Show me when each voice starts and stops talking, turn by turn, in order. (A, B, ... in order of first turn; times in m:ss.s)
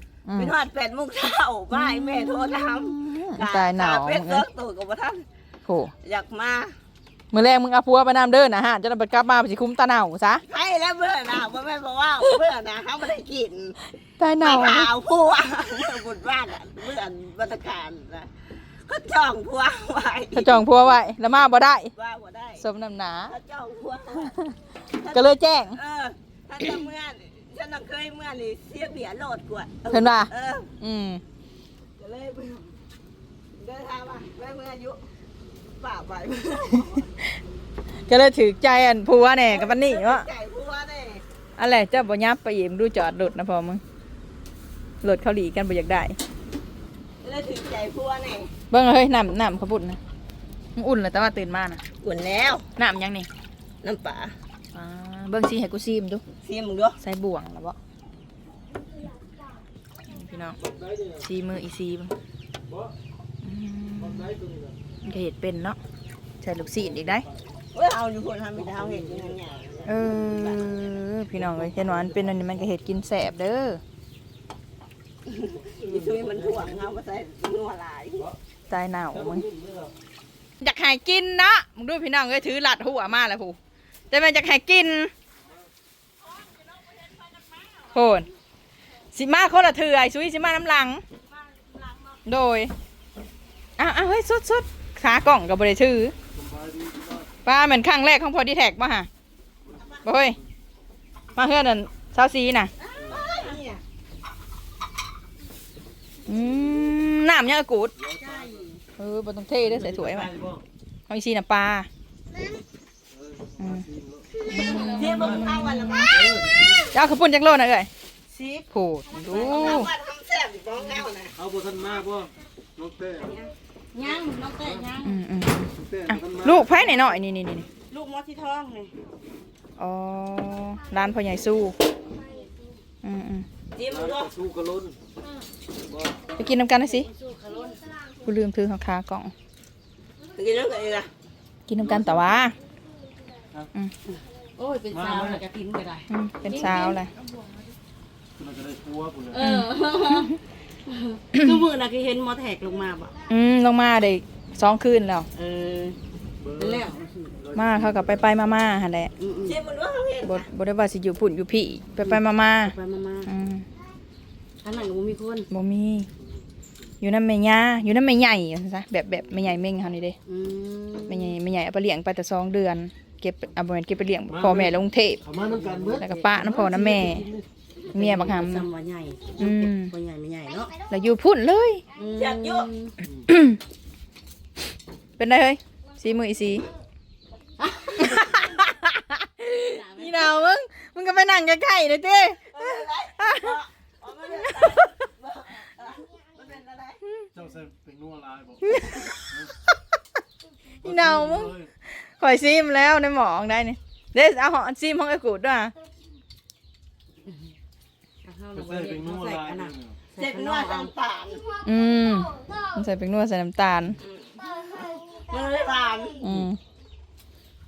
0:00.2-0:00.5 A
0:00.4-0:05.2 B
0:01.7-0:04.4 A
0:05.6-0:05.9 A
0:06.0-0:06.8 B
0:07.3-0:10.4 A
0:10.5-0:13.8 B
0:14.0-0:14.9 A
0:14.4-0:20.6 B
0:20.3-0:21.9 A
0:21.9-0:22.6 B
0:22.6-0:23.3 A
0:23.3-0:24.3 B
0:24.3-0:25.8 A
0:24.9-0:30.7 B
0:29.9-0:31.2 A
0:32.0-0:32.8 B
0:33.6-0:35.0 B
0:35.8-0:37.0 B
0:38.0-0:40.2 A
0:39.5-0:41.2 B
0:41.6-0:43.8 A
0:45.0-0:46.2 A
0:47.2-0:48.5 B
0:48.7-0:50.0 A
0:50.8-0:51.8 A
0:52.0-0:52.7 B
0:52.8-0:53.3 A
0:53.8-0:54.4 B
0:54.7-0:56.2 A
0:56.4-0:57.0 B
0:57.0-0:57.8 A
1:00.1-1:00.6 A
1:00.6-1:01.2 C
1:01.2-1:02.1 A
1:02.7-1:02.9 C
1:03.4-1:04.3 A
1:04.0-1:04.8 C
1:05.0-1:05.8 A
1:06.4-1:07.3 A
1:07.7-1:10.6 B
1:08.6-1:09.4 C
1:09.8-1:13.8 A
1:11.4-1:12.1 C
1:15.2-1:18.3 B
1:15.7-1:16.9 C
1:18.7-1:19.4 A
1:19.1-1:19.9 C
1:20.6-1:23.6 A
1:24.1-1:25.1 A
1:26.3-1:27.8 B
1:27.9-1:28.3 A
1:29.1-1:31.0 A
1:31.5-1:32.2 B
1:32.2-1:32.7 A
1:33.8-1:36.1 A
1:36.3-1:37.3 C
1:37.4-1:39.1 A
1:39.6-1:40.3 C
1:40.0-1:40.4 A
1:41.4-1:42.7 A
1:42.8-1:43.6 D
1:43.0-1:43.2 C
1:43.1-1:43.8 B
1:46.2-1:47.9 A
1:48.0-1:48.6 C
1:48.2-1:48.8 D
1:49.0-1:50.3 A
1:49.6-1:50.6 C
1:51.1-1:51.9 A
1:53.1-1:54.3 C
1:53.6-1:53.8 A
1:54.4-1:56.1 A
1:54.6-1:55.1 D
1:54.7-1:56.2 B
1:55.0-1:57.0 C
1:56.9-1:57.9 A
1:58.3-1:58.7 D
1:58.7-1:59.9 A
1:59.2-2:01.3 B
2:01.3-2:03.3 C
2:03.3-2:05.2 D
2:04.6-2:04.9 C
2:05.0-2:07.6 A
2:05.7-2:06.9 C
2:07.9-2:08.9 D
2:09.8-2:11.8 A
2:13.0-2:13.4 A
2:13.7-2:14.3 B
2:13.9-2:15.0 C
2:15.8-2:16.2 C
2:16.4-2:17.1 A
2:16.7-2:17.9 D
2:18.2-2:19.3 A
2:20.4-2:21.1 B
2:21.7-2:22.5 A
2:21.8-2:22.4 C
2:24.6-2:27.0 D
2:24.9-2:25.4 C
2:26.1-2:27.6 A
2:28.4-2:29.4 C
2:29.3-2:33.1 D
2:29.4-2:30.3 A
2:33.3-2:35.3 A
2:35.3-2:36.0 D
2:36.4-2:38.5 C
2:36.6-2:37.4 D
2:37.5-2:39.1 A
2:39.2-2:39.6 D
2:39.4-2:40.5 B
2:40.2-2:42.7 A
2:42.0-2:43.3 D
2:43.3-2:43.6 A
2:44.6-2:45.5 D
2:45.5-2:46.1 A
2:47.0-2:50.2 A
2:50.2-2:51.4 D
2:51.1-2:55.2 A
2:54.3-2:57.5 C
2:55.5-2:56.3 D
2:56.0-2:57.3 A
2:57.9-3:00.7 D
2:57.9-2:58.7 A
2:59.4-2:59.9 A
3:00.9-3:01.8 A
3:01.9-3:03.0 D
3:02.1-3:02.7 B
3:03.3-3:03.6 A
3:05.2-3:06.7 A
3:07.6-3:08.6 D
3:08.0-3:12.6 A
3:09.6-3:10.4 D
3:12.5-3:17.0 B
3:13.2-3:13.5 A
3:17.3-3:19.5 C
3:18.7-3:19.1 A
3:20.8-3:25.7 A
3:20.8-3:21.7 C
3:27.3-3:27.5 D
3:28.2-3:30.9 D
3:28.5-3:30.0 C
3:30.2-3:31.4 B
3:31.6-3:34.0 A
3:34.0-3:36.2 B
3:36.2-3:36.6 A